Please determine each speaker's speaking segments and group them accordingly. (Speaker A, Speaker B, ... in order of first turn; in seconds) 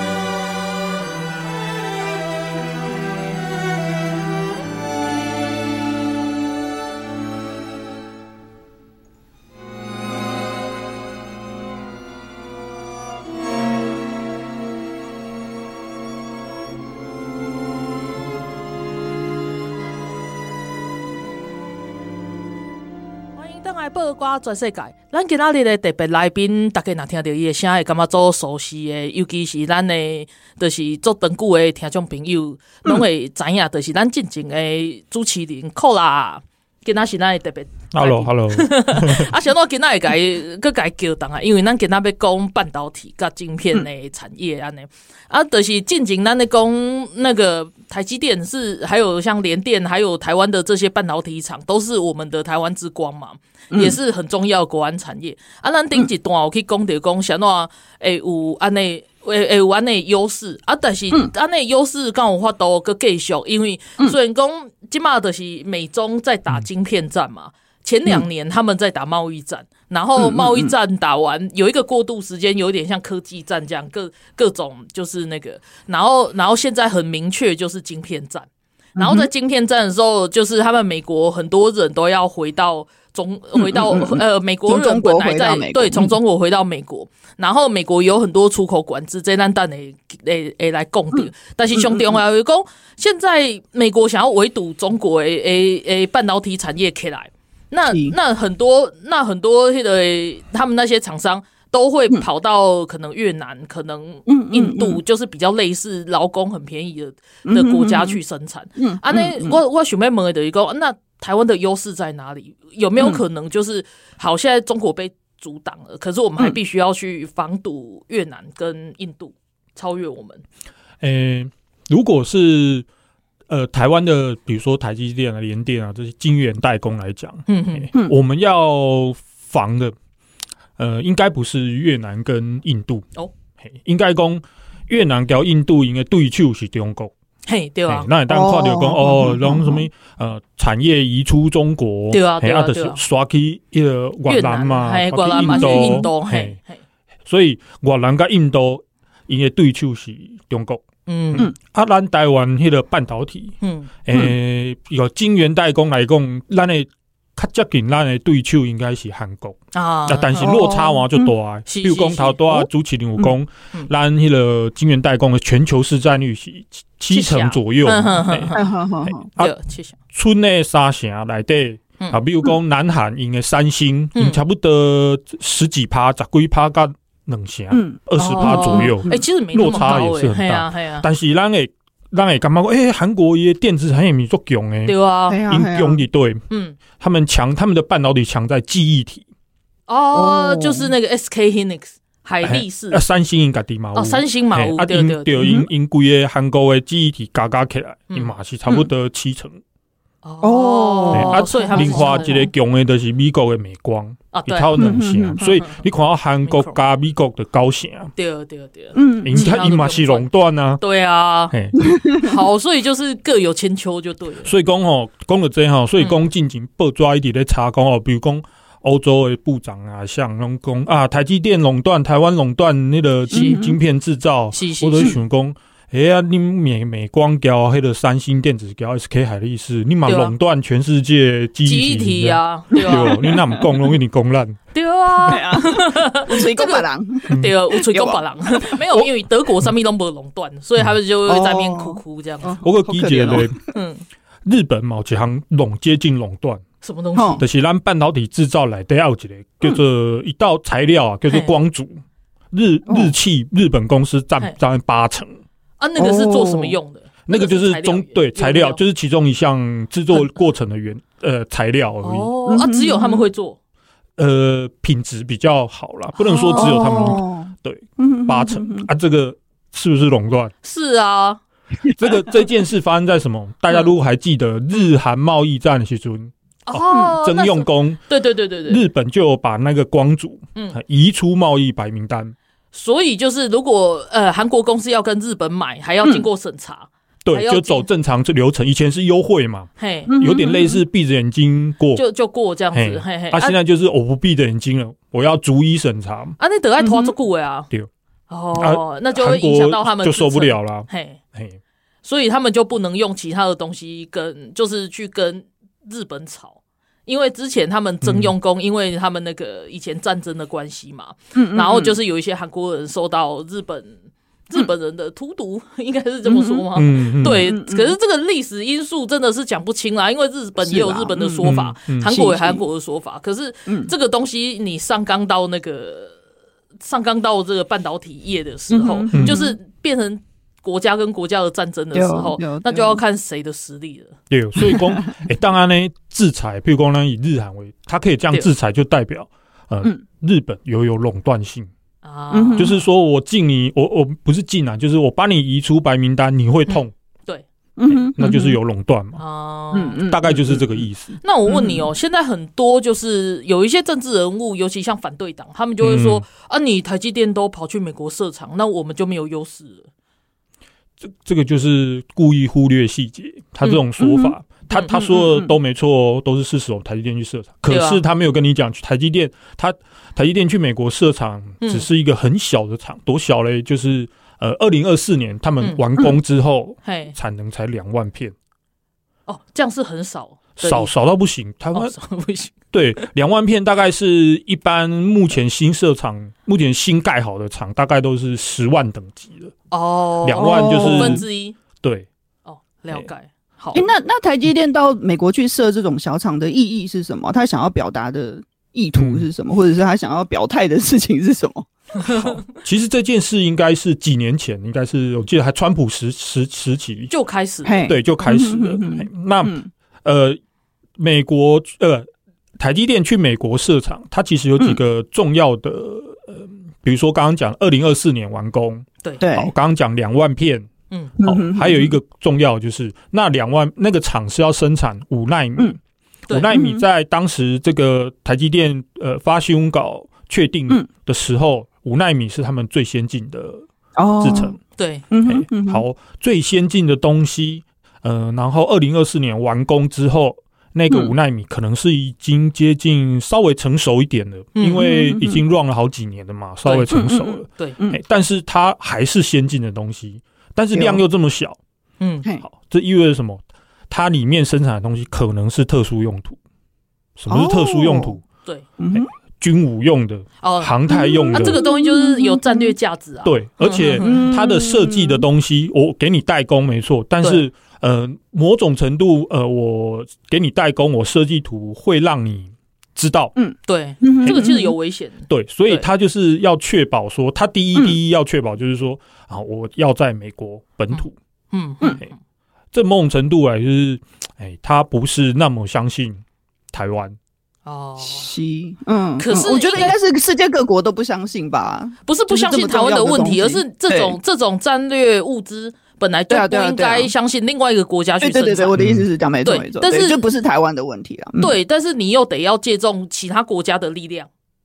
Speaker A: 23.4-78.5, 79.0-120.4, 127.5-127.9, 137.5-138.1, 142.1-143.0, 144.3-146.8, 151.1-151.5, 153.6-153.9, 159.7-160.6, 161.7-162.4, 167.1-168.7, 169.4-169.9, 174.1-174.4, 178.2-181.1, 184.9-185.4, 186.5-186.8, 189.9-193.0, 193.9-195.6, 200.2-202.4, 204.3-205.8, 206.4-206.8, 208.2-210.3, 210.8-214.5, 223.3-223.6, 224.5-225.2, 230.1-230.3, 231.6-233.2, 234.7-242.5, 243.7-244.0, 246.8-247.4, 251.3-251.5, 255.8-258.8, 262.0-263.6, 266.2-267.2, 270.6-271.4, 276.7-278.8, 282.7-287.9, 289.8-290.1, 291.9-293.6, 296.4-297.7, 298.3-301.2, 302.0-326.2, 326.8-334.1, 342.0-342.7, 346.7-347.4, 349.2-350.0, 351.2-359.9, 367.7-368.0, 371.6-371.9, 375.6-376.1, 376.8-377.1, 379.3-380.9, 381.7-382.5, 389.7-391.6, 392.4-393.9, 401.9-402.4, 407.1-407.9, 434.8-435.0, 444.6-444.8, 446.6-446.9, 452.0-452.3, 460.4-460.8, 461.3-464.3, 473.7-475.9, 480.9-482.1, 487.6-488.3, 489.2-490.0, 492.1-498.8, 499.4-500.2, 501.4-504.3
Speaker B: 37.9-39.3, 121.0-122.8, 123.5-129.9, 130.8-133.1, 133.6-137.1, 137.9-146.6, 147.2-169.5, 170.1-186.4, 187.0-189.2, 192.4-199.6, 201.1-208.1, 209.2-210.8, 211.5-211.8, 214.4-235.4, 237.3-237.5, 242.6-243.6, 244.4-246.6, 247.4-255.4, 257.2-262.3, 264.2-270.5, 272.0-278.0, 278.6-282.3, 287.2-292.0, 292.7-296.4, 298.5-301.6, 308.0-308.3, 316.7-317.5, 321.4-322.1, 329.1-329.4, 334.3-341.7, 342.6-346.9, 347.9-349.2, 350.1-351.2, 355.8-356.2, 361.0-378.3, 380.6-381.9, 382.7-389.5, 390.2-391.2, 391.8-392.1, 398.9-399.2, 402.0-407.1, 407.8-410.4, 411.0-425.8, 426.3-433.7, 434.2-434.6, 435.2-451.6, 452.4-456.4, 457.2-458.2, 458.9-461.6, 463.2-473.3, 474.2-474.5, 475.2-481.1, 482.7-487.2, 498.7-499.1
Speaker C: 53.7-54.0, 70.2-70.7, 79.0-79.3, 83.5-86.1, 91.1-92.2, 97.9-98.1, 104.3-105.0, 107.5-108.2, 108.8-109.6, 138.3-139.8, 145.4-146.1, 160.4-161.3, 168.5-169.2, 177.7-179.2, 185.3-186.0, 190.1-190.9, 195.4-195.7, 200.4-202.5, 204.8-205.4, 208.9-209.5, 211.8-212.2, 223.3-223.7, 232.7-233.7, 235.3-239.1, 241.2-243.6, 247.1-247.4, 252.9-253.1, 256.0-256.8, 262.4-263.2, 266.2-268.9, 276.9-277.1, 290.1-290.8, 296.8-297.1, 311.3-312.0, 316.2-316.7, 317.3-317.9, 320.6-321.5, 322.0-322.6, 323.7-323.9, 328.7-329.6, 331.9-333.0, 334.7-335.0, 342.3-342.7, 347.8-348.6, 349.7-350.8, 351.4-351.9, 364.0-364.3, 364.9-365.5, 390.4-391.2, 393.7-401.7, 407.6-409.7, 419.2-419.5, 421.2-421.9, 426.5-426.8, 433.9-434.6, 435.1-435.8, 440.9-441.1, 444.7-445.4, 446.9-448.0, 450.7-451.0, 457.3-458.2, 458.8-459.1, 460.9-462.7, 464.0-465.2, 473.4-474.7, 488.0-494.1, 496.3-497.1, 498.2-501.5